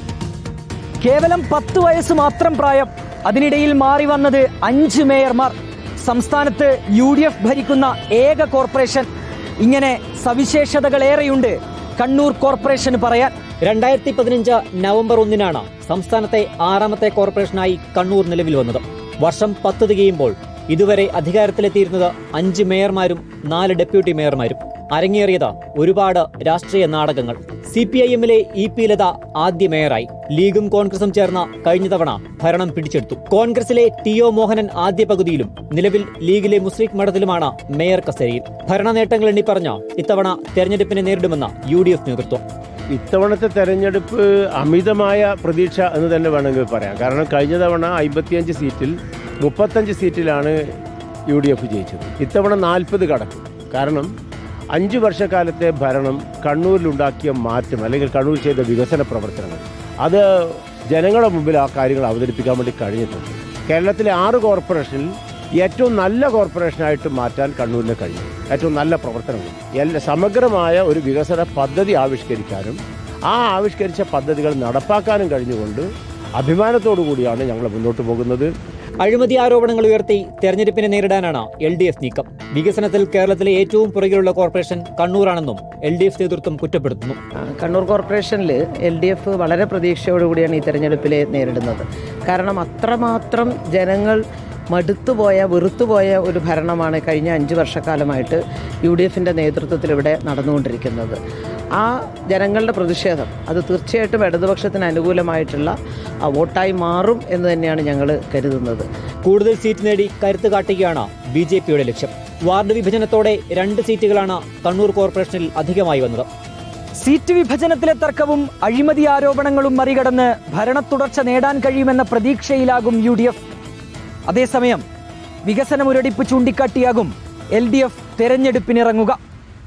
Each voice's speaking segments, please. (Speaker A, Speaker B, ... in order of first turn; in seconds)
Speaker A: 1.0-9.1, 9.6-13.4, 117.0-123.4, 124.2-124.8, 125.4-129.2
Speaker B: 13.6-42.4, 79.0-87.2, 109.2-116.3
Speaker C: 42.9-50.6, 51.3-54.1, 54.7-75.9, 76.4-78.5
Speaker D: 87.5-94.2, 94.7-101.2, 101.8-108.9